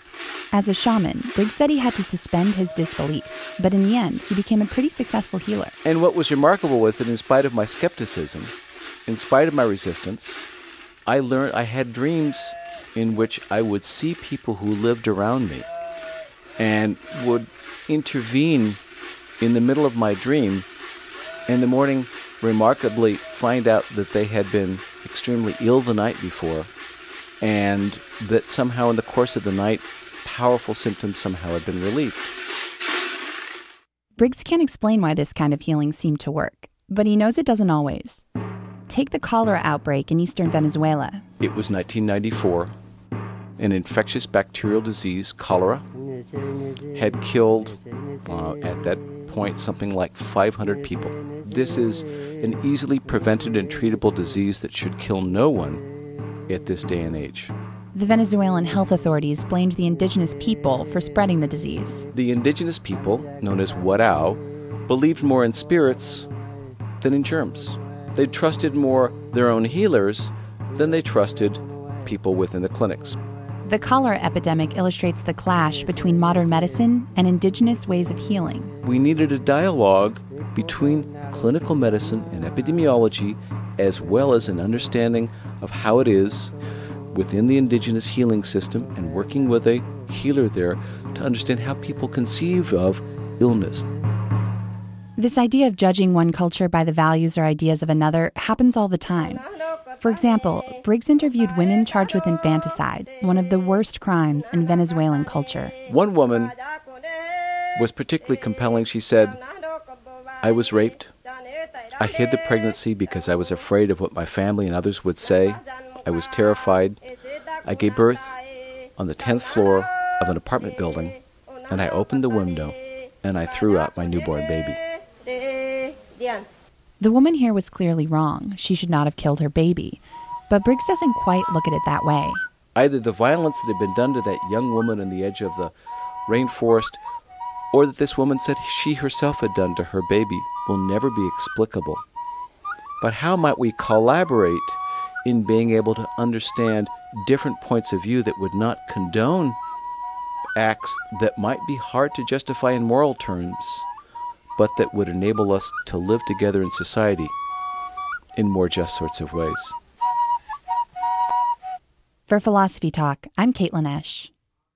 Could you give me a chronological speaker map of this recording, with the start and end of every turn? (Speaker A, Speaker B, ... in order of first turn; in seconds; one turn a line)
Speaker A: 0.5-5.7
Speaker B: 5.8-8.5
Speaker B: 9.1-10.4
Speaker B: 11.1-15.7
Speaker B: 16.6-18.8
Speaker B: 19.4-20.6
Speaker B: 21.5-26.7
Speaker B: 27.4-32.3
Speaker A: 34.2-38.2
Speaker A: 38.9-41.2
Speaker B: 41.4-42.7
Speaker B: 43.6-45.8
Speaker B: 46.9-55.8
Speaker B: 56.5-57.5
Speaker A: 57.9-62.1
Speaker B: 62.1-66.3
Speaker B: 67.0-73.2
Speaker A: 73.6-78.7
Speaker B: 78.8-86.5
Speaker B: 87.1-93.9
Speaker A: 95.2-99.4
Speaker A: 100.0-105.7
Speaker B: 105.8-106.5
Speaker B: 107.7-109.4
Speaker B: 110.4-111.1
Speaker B: 111.9-117.0
Speaker B: 117.6-118.4
Speaker B: 119.0-124.8
Speaker A: 127.0-132.4
Speaker B: 132.7-135.7
Speaker B: 136.3-137.0
Speaker B: 137.7-142.0
Speaker B: 143.0-149.6
Speaker B: 150.6-153.9
Speaker B: 154.6-157.3
Speaker B: 158.3-159.7
Speaker A: 162.3-164.3